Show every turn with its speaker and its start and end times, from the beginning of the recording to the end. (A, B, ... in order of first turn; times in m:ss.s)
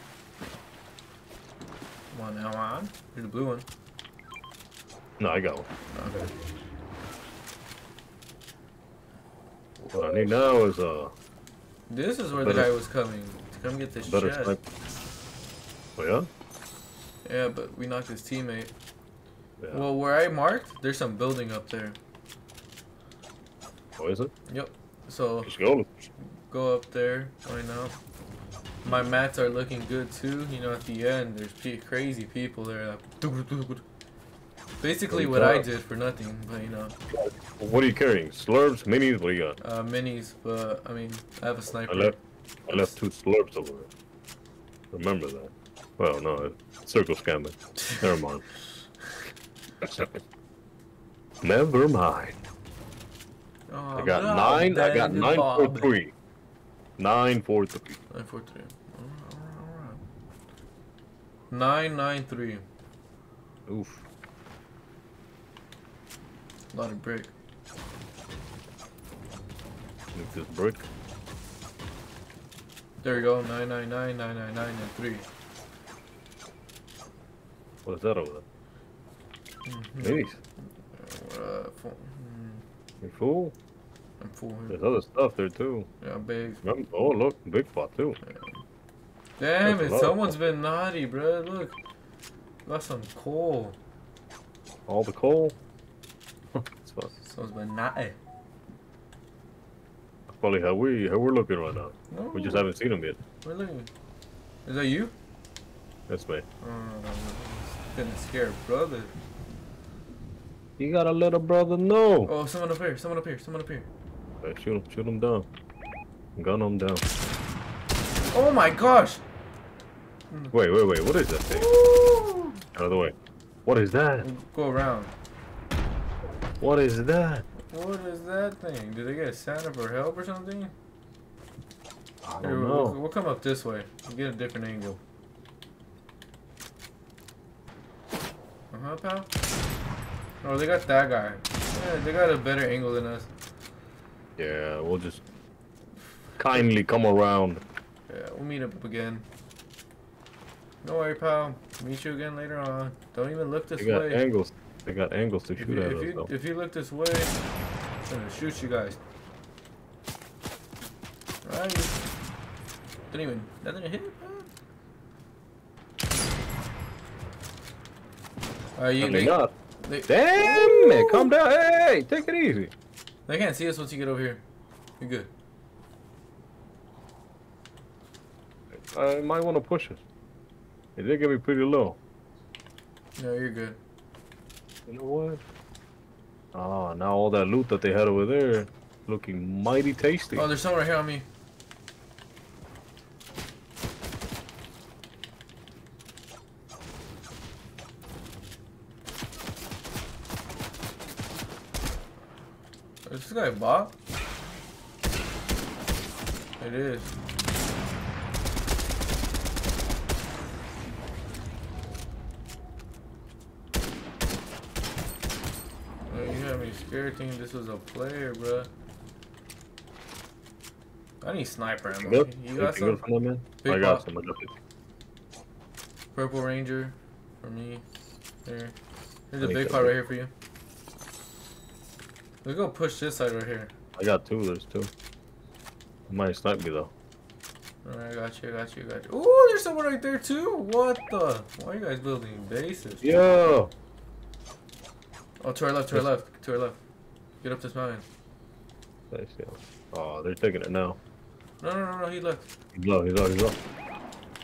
0:02.1-0:03.6 A
0:05.2-0:05.7 B
0:05.9-0:06.3 A
0:09.8-0:11.1 B
0:11.9-0:14.6 A
0:12.3-0:12.7 B
0:14.0-0:14.6 B
0:16.0-0:16.3 B
0:17.2-0:18.7 A
0:19.6-0:19.8 B
0:19.7-0:22.0 A
0:24.0-0:24.3 B
0:24.5-0:25.5 A
0:25.4-0:26.1 B
0:26.5-0:28.0 A
0:28.8-0:33.8 A
0:34.8-0:36.9 A
0:35.1-0:35.7 B
0:37.1-0:39.6 B
0:39.6-0:42.2 A
0:41.9-0:42.2 B
0:42.7-0:43.9 B
0:42.7-0:42.9 A
0:44.9-0:48.4 B
0:49.8-0:50.2 B
0:51.4-0:52.4 B
0:53.7-0:55.9 A
0:53.9-0:56.1 B
0:57.0-0:58.0 B
0:58.1-1:00.0 A
1:01.5-1:02.6 A
1:03.7-1:04.0 B
1:06.7-1:07.3 A
1:10.1-1:10.9 B
1:13.0-1:15.2 A
1:17.8-1:18.4 B
1:19.6-1:20.3 A
1:20.0-1:20.4 B
1:20.9-1:22.6 A
1:23.0-1:23.5 B
1:24.2-1:24.8 A
1:24.7-1:25.9 B
1:26.0-1:26.6 A
1:26.6-1:28.2 B
1:28.2-1:28.6 A
1:29.4-1:31.8 A
1:29.6-1:30.3 B
1:32.6-1:33.8 A
1:34.9-1:35.6 B
1:36.5-1:37.1 B
1:37.2-1:38.2 A
1:40.3-1:43.2 B
1:42.1-1:42.7 A
1:43.4-1:43.9 A
1:44.6-1:45.1 A
1:46.1-1:46.4 B
1:46.6-1:49.1 A
1:50.8-1:52.3 B
1:52.2-1:53.9 A
1:54.4-1:55.5 B
1:56.4-1:57.0 B
1:58.3-1:59.2 A
2:00.5-2:01.7 B
2:01.5-2:02.6 A
2:02.7-2:03.1 B
2:03.6-2:04.2 B
2:04.2-2:05.1 A
2:06.6-2:07.4 B
2:07.7-2:10.7 A
2:12.2-2:13.0 B
2:12.4-2:15.0 A
2:18.7-2:19.3 A
2:20.4-2:23.3 A
2:24.4-2:25.2 B
2:26.4-2:27.6 B
2:28.1-2:29.2 A
2:30.8-2:34.2 A
2:33.8-2:36.3 B
2:35.6-2:37.4 A
2:38.1-2:39.0 A
2:41.4-2:42.0 A
2:43.1-2:44.5 A
2:48.8-2:51.3 A
2:49.0-2:49.5 B
2:50.1-2:52.7 B
2:53.3-2:54.4 A
2:55.0-2:55.3 A
2:58.7-3:00.0 B
3:01.0-3:02.0 B
3:03.2-3:03.8 A
3:04.9-3:05.4 B
3:06.5-3:10.5 B
3:10.4-3:11.2 A
3:23.0-3:23.9 A
3:26.6-3:27.1 A
3:36.1-3:38.7 A
3:41.2-3:43.0 A
3:42.0-3:44.6 B
3:43.6-3:44.0 A
3:46.1-3:47.8 A
3:48.4-3:48.7 A
3:49.3-3:50.3 A
3:49.4-3:50.0 B
3:52.4-3:53.7 A
3:54.0-3:54.9 B
3:56.1-3:56.9 B
3:57.8-4:03.2 A
4:03.0-4:03.7 B
4:05.4-4:06.8 A
4:07.4-4:08.0 A
4:09.1-4:11.0 B
4:11.6-4:12.4 A
4:12.7-4:13.6 B